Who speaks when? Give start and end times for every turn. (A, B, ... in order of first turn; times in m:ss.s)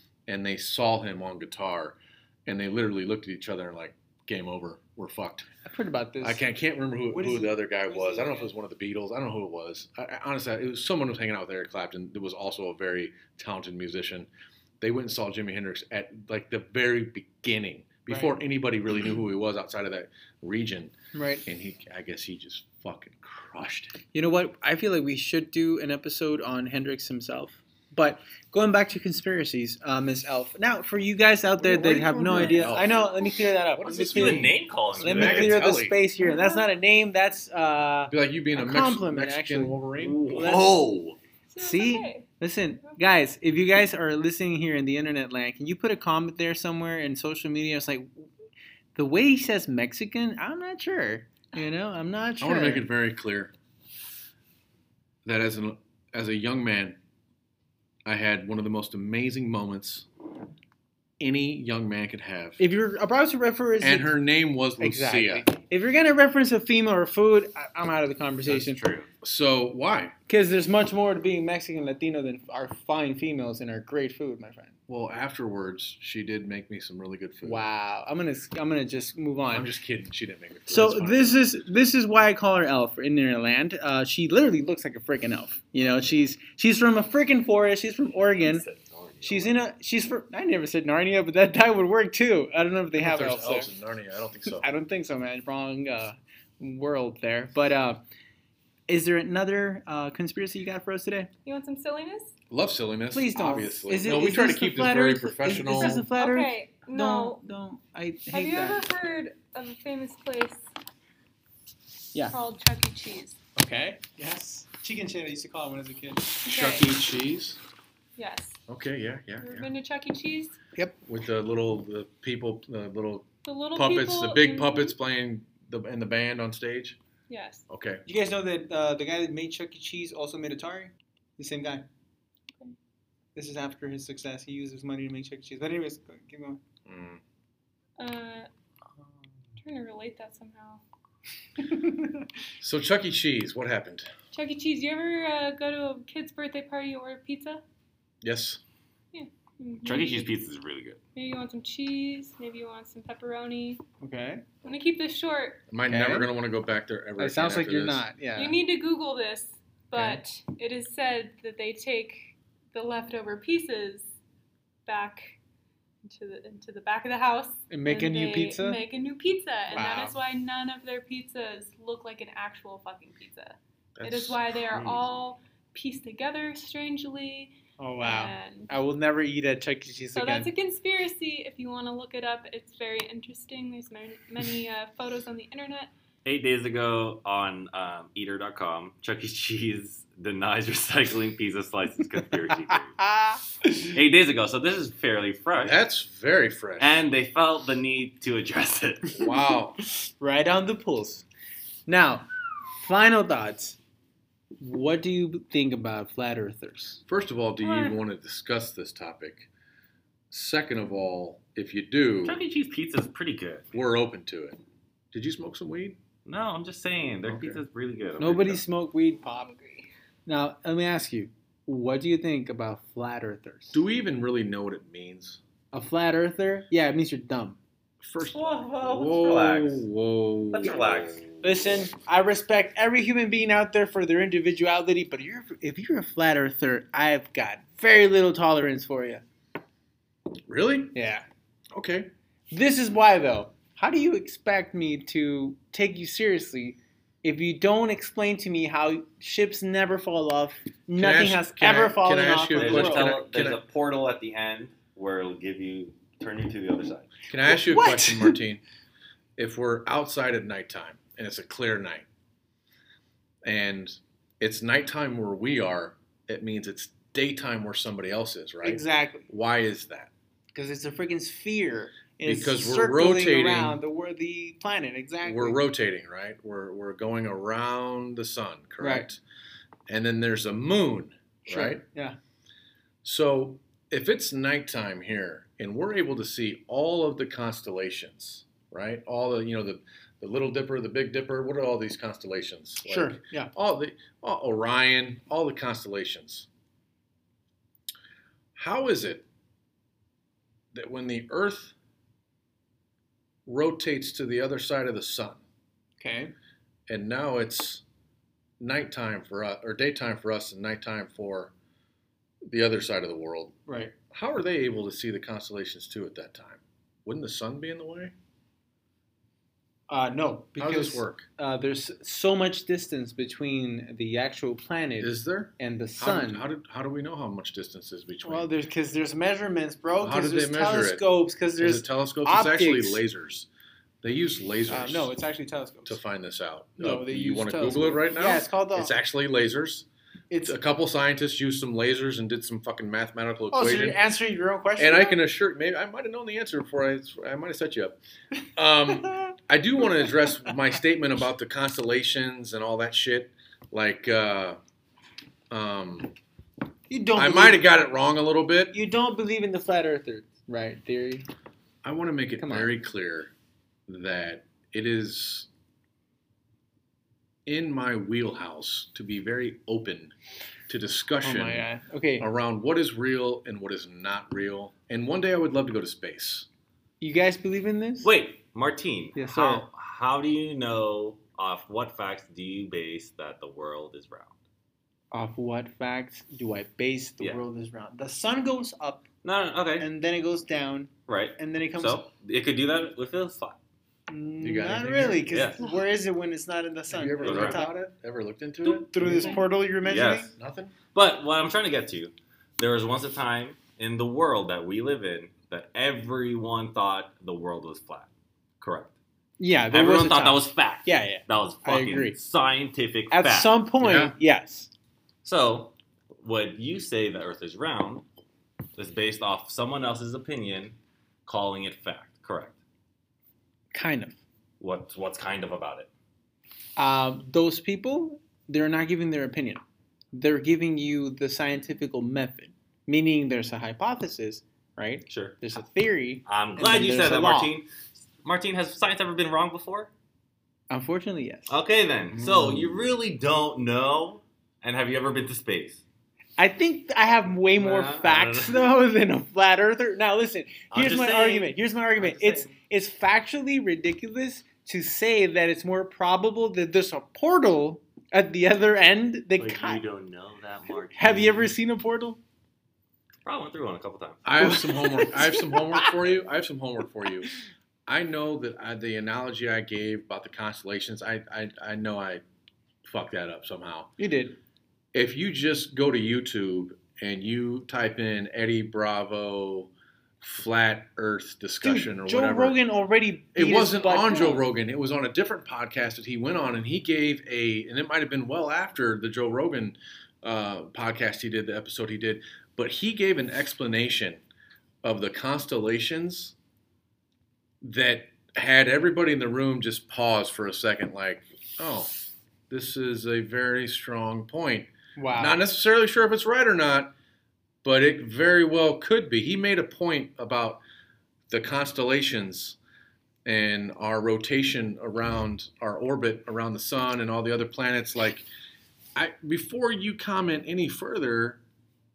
0:00.3-0:05.5 A
0:05.6-0:06.4 B
0:06.2-0:14.3 A
0:07.1-0:08.5 B
0:14.8-0:20.9 A
0:18.1-0:18.4 B
0:21.1-0:21.4 B
0:21.4-0:24.0 A
0:24.1-0:40.9 B
0:31.6-0:33.0 A
0:32.4-0:33.1 C
0:33.8-0:36.0 A
0:33.8-0:35.6 D
0:36.2-0:36.7 C
0:38.1-0:40.5 A
0:40.0-0:41.2 D
0:41.5-0:42.3 C
0:41.6-0:48.3 B
0:49.0-0:52.9 B
0:52.4-0:53.5 A
0:55.2-0:57.0 A
0:58.0-1:00.1 A
1:01.2-1:02.6 A
1:02.6-1:04.2 B
1:03.8-1:05.5 A
1:04.8-1:08.8 B
1:08.4-1:09.1 D
1:09.2-1:10.2 A
1:10.3-1:14.8 B
1:14.9-1:17.6 A
1:17.4-1:19.7 B
1:19.5-1:21.4 A
1:20.7-1:28.6 B
1:28.4-1:29.6 D
1:29.2-1:33.7 B
1:33.0-1:34.6 A
1:34.6-1:38.0 B
1:38.9-1:41.3 B
1:41.4-1:42.3 C
1:42.5-1:46.0 A
1:43.1-1:48.8 B
1:45.8-1:47.4 C
1:48.3-1:50.6 C
1:52.3-1:53.4 C
1:53.6-1:56.4 B
1:56.4-1:56.9 C
1:56.5-1:57.6 A
1:58.2-1:58.6 C
1:58.7-1:59.7 A
1:59.4-2:00.6 C
2:01.0-2:07.0 A
2:03.4-2:04.9 C
2:07.3-2:07.7 C
2:07.7-2:08.0 A
2:08.1-2:11.9 B
2:13.4-2:16.6 B
2:16.9-2:17.2 A
2:18.0-2:18.5 C
2:19.6-2:20.8 C
2:21.7-2:22.2 B
2:22.6-2:24.1 A
2:24.3-2:27.6 C
2:28.2-2:28.6 A
2:29.1-2:30.3 C
2:29.8-2:31.0 D
2:31.2-2:33.8 C
2:34.0-2:34.5 B
2:34.6-2:35.6 C
2:35.7-2:38.0 A
2:35.9-2:36.3 B
2:37.2-2:38.6 B
2:38.4-2:44.1 C
2:39.9-2:40.2 B
2:44.9-2:45.4 C
2:46.0-2:58.7 C
2:47.7-2:48.8 B
2:49.7-2:50.2 B
2:54.0-2:55.0 A
2:57.8-3:00.5 B
3:00.2-3:05.9 C
3:06.2-3:13.0 D
3:13.0-3:13.4 B
3:13.8-3:15.8 D
3:15.6-3:17.0 A
3:16.8-3:19.2 D
3:19.2-3:19.8 A
3:20.0-3:21.3 B
3:21.9-3:23.8 B
3:24.6-3:27.0 B
3:27.1-3:29.5 A
3:30.3-3:32.4 A
3:32.2-3:33.8 D
3:33.7-3:34.6 A
3:35.1-3:36.0 A
3:36.2-3:38.6 D
3:37.2-3:37.6 A
3:38.2-3:39.5 B
3:39.2-3:39.9 C
3:40.3-3:43.8 B
3:43.7-3:45.4 A
3:45.7-3:47.6 B
3:48.0-3:51.4 A
3:48.3-3:49.9 D
3:50.5-3:51.3 D
3:51.4-3:59.2 B
4:00.5-4:00.9 A
4:00.9-4:01.2 B
4:01.7-4:02.1 A
4:02.5-4:13.1 B
4:11.0-4:13.6 A
4:12.6-4:17.2 D
4:17.3-4:18.6 A
4:17.5-4:18.4 B
4:19.4-4:22.1 A
4:23.4-4:30.1 A
4:28.6-4:29.3 B
4:30.5-4:35.6 B
4:32.2-4:33.8 A
4:35.2-4:39.2 A
4:38.8-4:39.1 B
4:39.9-4:41.8 A
4:41.5-4:42.2 B
4:43.0-4:56.5 A
4:52.9-4:53.5 B
4:58.6-4:59.2 A
5:00.7-5:01.7 A
5:03.5-5:05.4 A
5:06.0-5:06.3 B
5:06.9-5:07.8 A
5:08.6-5:11.5 A
5:12.5-5:13.6 A
5:13.7-5:13.9 B
5:14.1-5:18.1 A
5:19.9-5:26.5 B
5:20.6-5:21.3 A
5:25.0-5:28.5 A
5:28.2-5:33.0 B
5:30.0-5:31.0 A
5:31.6-5:33.5 A
5:34.0-5:35.1 A
5:34.7-5:36.0 B
5:35.9-5:39.9 A
5:36.8-5:38.9 B
5:40.3-5:40.6 B
5:40.4-5:44.0 A
5:43.5-5:45.2 B
5:44.8-5:48.0 A
5:48.6-5:54.6 A
5:55.5-5:56.1 A
5:56.9-5:57.7 B
5:57.2-5:58.8 A
5:58.7-6:01.3 B
6:01.8-6:03.3 A
6:02.4-6:02.8 B
6:03.9-6:05.5 A
6:07.5-6:10.1 A
6:10.7-6:11.7 A
6:11.2-6:12.3 B
6:12.2-6:16.5 A
6:17.0-6:18.1 B
6:18.0-6:24.3 D
6:19.2-6:19.7 B
6:25.1-6:29.0 B
6:29.2-6:29.9 D
6:29.8-6:32.1 B
6:31.1-6:33.6 D
6:34.1-6:37.8 B
6:34.4-6:35.3 A
6:35.3-6:35.6 D
6:36.9-6:39.4 A
6:37.2-6:37.6 D
6:38.6-6:40.3 B
6:39.8-6:40.3 D
6:40.4-6:40.7 A
6:40.9-6:48.1 D
6:48.6-6:48.9 D
6:49.4-6:52.2 B
6:49.7-6:53.6 D
6:53.1-6:54.7 B
6:53.8-6:54.2 A
6:55.2-6:58.0 D
6:58.8-7:02.6 D
7:03.7-7:04.2 B
7:04.6-7:05.9 D
7:06.8-7:09.6 B
7:10.1-7:17.6 B
7:15.1-7:15.4 D
7:16.3-7:19.9 D
7:20.7-7:21.6 B
7:21.5-7:25.8 D
7:22.1-7:22.8 A
7:26.4-7:39.8 B
7:27.6-7:28.7 D
7:30.7-7:32.5 D
7:39.4-7:41.5 D
7:40.9-7:42.2 B
7:43.2-7:44.6 D
7:44.2-7:47.3 A
7:44.4-7:45.9 B
7:47.9-7:52.2 A
7:52.8-7:53.9 A
7:54.0-7:54.4 B
7:54.9-8:02.6 A
8:01.6-8:04.4 B
8:03.4-8:14.2 A
8:14.8-8:16.4 A
8:17.6-8:21.9 A
8:22.5-8:26.9 A
8:25.0-8:25.4 B
8:27.6-8:30.6 A
8:31.3-8:32.6 A
8:33.2-8:38.3 A
8:39.0-8:41.4 A